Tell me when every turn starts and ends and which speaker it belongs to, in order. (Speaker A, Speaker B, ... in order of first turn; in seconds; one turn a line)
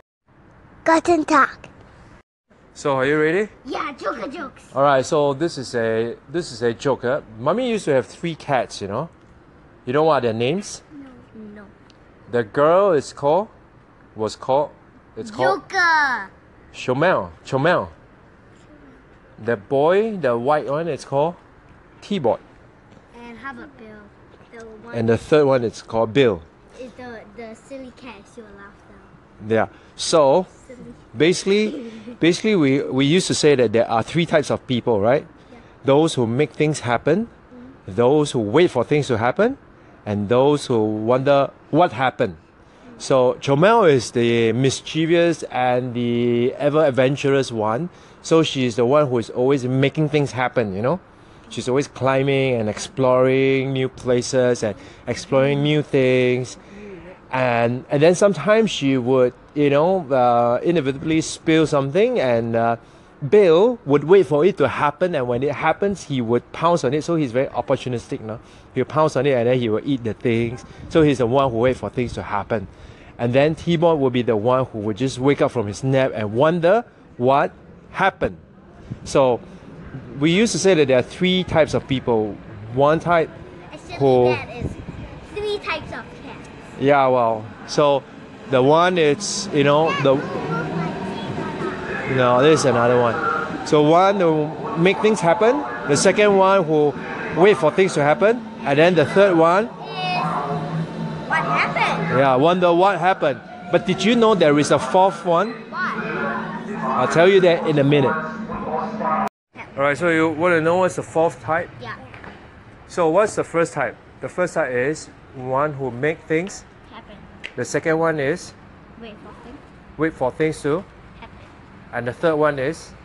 Speaker A: 0.8-1.7
Speaker B: 2.8-3.5
Speaker A: 3.6-4.7
Speaker B: 4.7-9.1
Speaker B: 9.9-10.8
Speaker A: 11.2-11.7
Speaker B: 12.3-13.5
Speaker B: 14.2-15.6
Speaker A: 15.2-16.3
Speaker B: 16.7-17.9
Speaker B: 19.4-21.4
Speaker B: 22.0-22.4
Speaker A: 23.1-25.2
Speaker B: 24.9-26.4
Speaker A: 26.8-29.1
Speaker B: 29.4-30.5
Speaker A: 30.6-31.0
Speaker B: 31.1-35.3
Speaker A: 31.6-32.0
Speaker B: 35.8-37.3
Speaker B: 37.9-42.4
Speaker B: 43.0-56.6
Speaker B: 57.3-78.4
Speaker B: 79.0-79.4
Speaker B: 80.0-83.3
Speaker A: 83.7-86.5
Speaker B: 83.9-84.4
Speaker B: 86.8-90.4
Speaker A: 90.0-92.0
Speaker B: 92.1-99.7
Speaker A: 99.8-100.4
Speaker A: 101.3-102.1
Speaker B: 102.1-105.6
Speaker A: 105.7-106.1
Speaker B: 106.9-108.2
Speaker A: 109.6-110.1
Speaker B: 109.8-111.7
Speaker B: 112.9-116.7
Speaker A: 116.9-117.2
Speaker B: 117.6-118.5
Speaker A: 119.0-119.6
Speaker B: 120.0-120.9
Speaker A: 121.2-121.5
Speaker B: 121.9-122.9